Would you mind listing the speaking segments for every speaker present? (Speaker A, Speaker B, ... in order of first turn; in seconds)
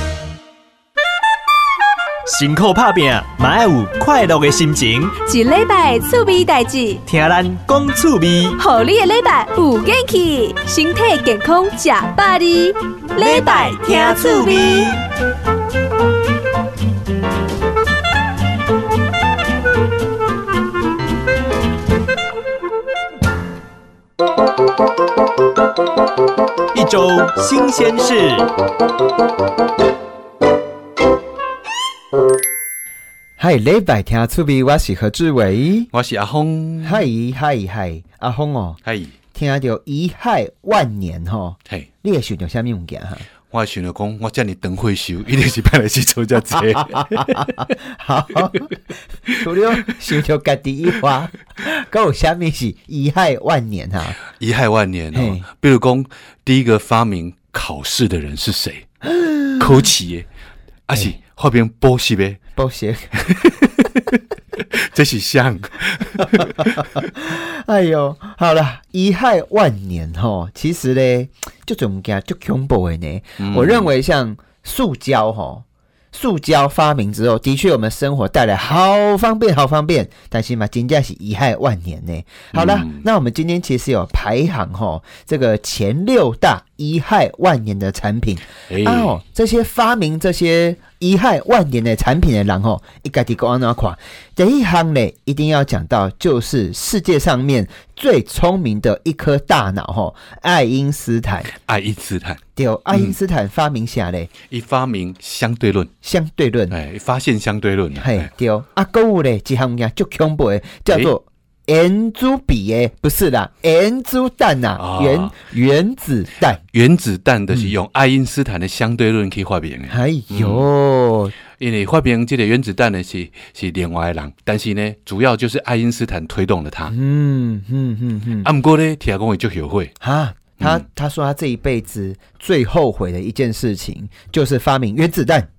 Speaker A: 2.3-5.2, 7.1-8.6, 13.2-15.0, 26.7-28.5
Speaker B: 5.2-7.0, 8.6-14.9
Speaker C: 33.4-35.9, 36.8-38.8, 39.3-43.3, 46.5-48.7, 49.3-54.2, 55.1-55.4, 59.0-59.8, 62.6-63.2, 66.2-101.5, 102.6-104.3, 106.0-106.8, 108.0-116.6, 119.9-121.3, 126.9-128.5, 130.0-135.5
Speaker D: 35.9-37.1, 38.9-39.1, 43.5-47.5, 54.4-58.9, 59.6-60.3, 60.9-62.4, 63.2-64.2, 64.7-66.9, 73.4-73.9, 82.5-83.0, 88.7-89.1, 101.6-102.4, 104.5-105.9, 106.7-108.3, 110.9-111.1, 114.8-115.3, 116.7-120.7, 121.6-126.9, 128.4-129.9